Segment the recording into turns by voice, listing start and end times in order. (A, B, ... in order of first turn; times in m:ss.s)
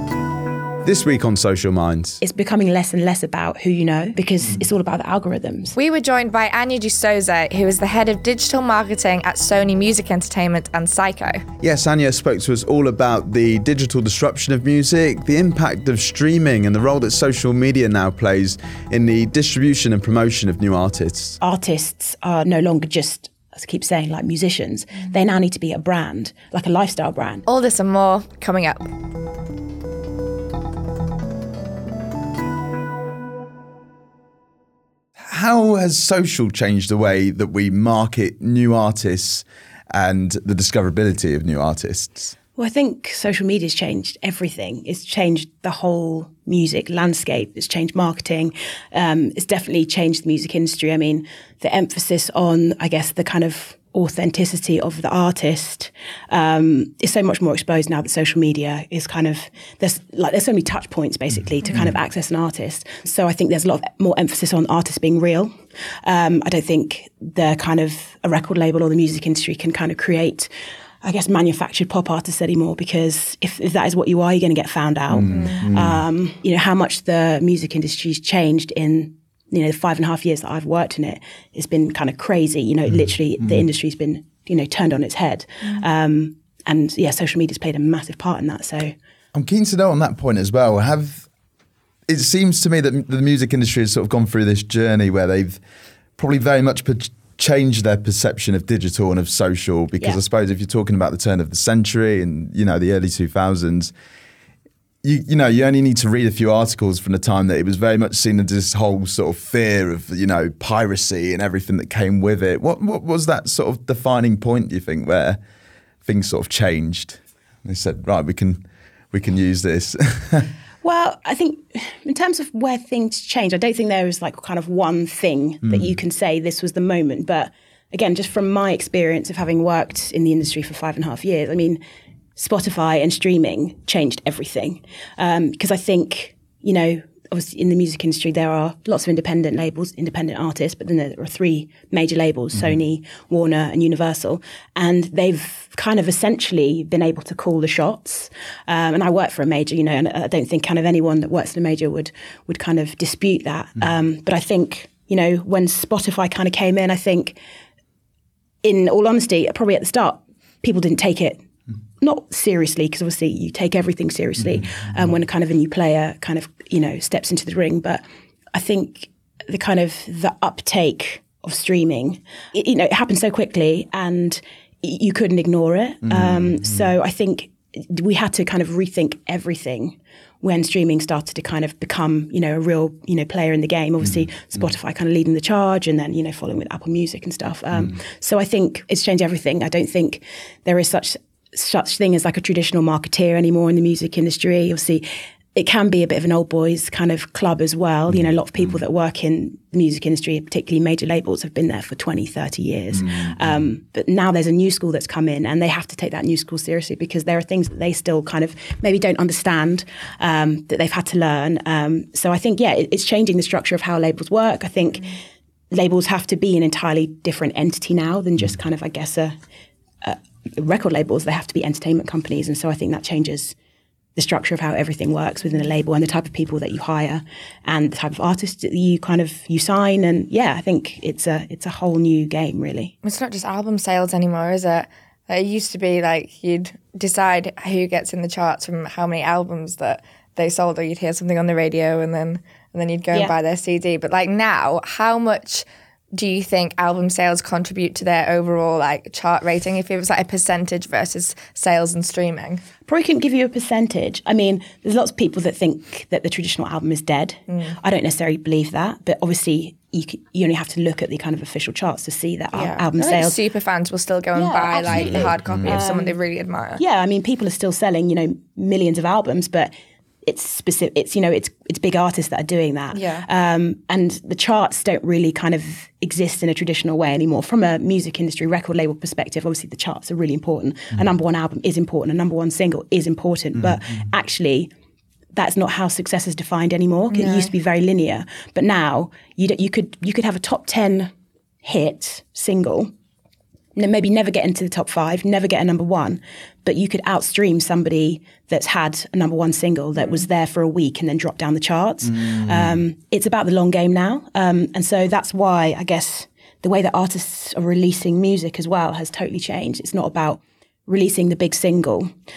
0:00.8-0:02.2 A
0:02.2-0:05.8 B
0:05.8-0:11.4 C
0:11.6-0:21.4 A
0:21.4-0:27.5 B
0:27.5-0:28.9 C
0:35.2-0:42.4 A
0:42.6-1:10.5 B
1:01.7-1:02.0 A
1:11.0-1:28.9 B
1:15.1-1:16.0 A
1:15.3-1:15.7 C
1:23.4-1:23.6 A
1:29.3-1:31.3 A
1:32.1-1:35.6 A
1:36.2-1:43.9 A
1:45.0-1:55.4 A
1:56.0-2:00.5 A
2:00.8-2:11.8 B
2:05.6-2:06.0 A
2:12.4-2:37.4 B
2:38.6-2:41.5 B
2:42.0-3:35.2 B
2:56.0-2:56.9 A
3:04.0-3:04.3 A
3:18.1-3:18.8 A
3:22.9-3:23.6 A
3:35.7-3:39.4 B
3:40.0-3:43.6 B
3:44.2-3:52.9 B
3:53.0-4:12.6 C
4:12.9-4:23.4 B
4:17.5-4:17.8 C
4:22.5-4:26.8 C
4:24.3-4:26.2 B
4:24.9-4:25.8 A
4:26.8-4:29.7 B
4:30.2-4:44.7 B
4:32.9-4:33.3 C
4:45.3-4:51.1 B
4:47.1-4:47.5 C
4:51.6-4:52.9 B
4:53.8-5:12.1 B
5:00.0-5:00.2 C
5:02.0-5:02.8 A